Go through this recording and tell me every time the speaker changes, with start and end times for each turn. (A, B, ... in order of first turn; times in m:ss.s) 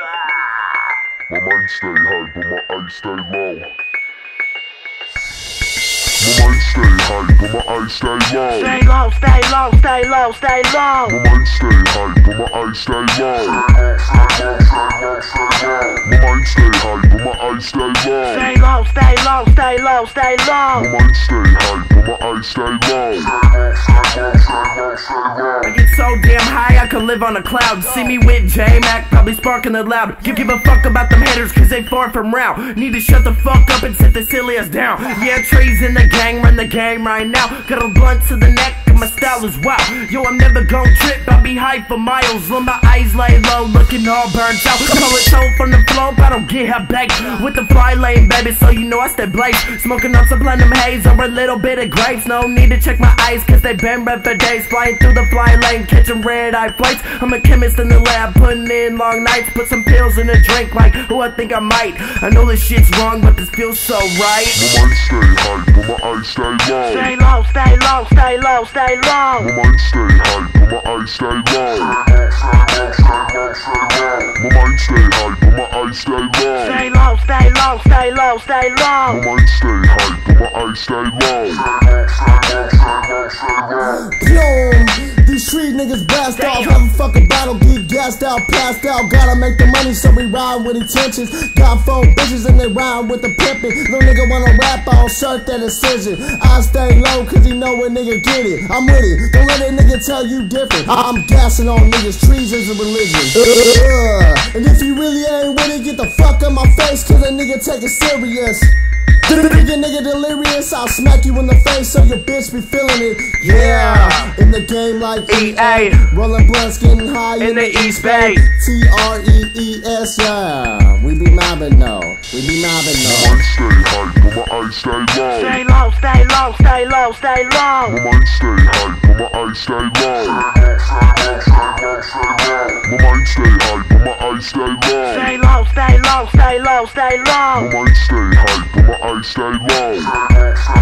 0:01.3-0:03.7 A
0:06.2-0:08.8 A
0:08.6-0:11.0 B
0:11.0-0:18.5 A
0:18.4-0:20.8 B
0:20.7-0:24.5 A
0:25.6-1:04.6 C
1:04.5-1:07.1 A
1:07.0-1:09.4 B
1:09.4-1:13.0 A
1:14.2-1:16.9 A
1:16.7-1:19.2 B
1:19.0-1:21.7 A
1:23.8-1:48.7 D
1:26.3-1:26.8 C
1:49.3-2:03.4 D
1:53.4-1:54.3 C
1:55.3-1:56.1 C
1:57.4-1:58.4 C
2:03.0-2:05.6 A
2:05.5-2:07.7 B
2:05.9-2:07.7 C
2:07.8-2:10.8 A
2:12.8-2:15.4 A
2:15.6-2:16.9 C
2:15.7-2:17.5 B
2:17.5-2:20.3 A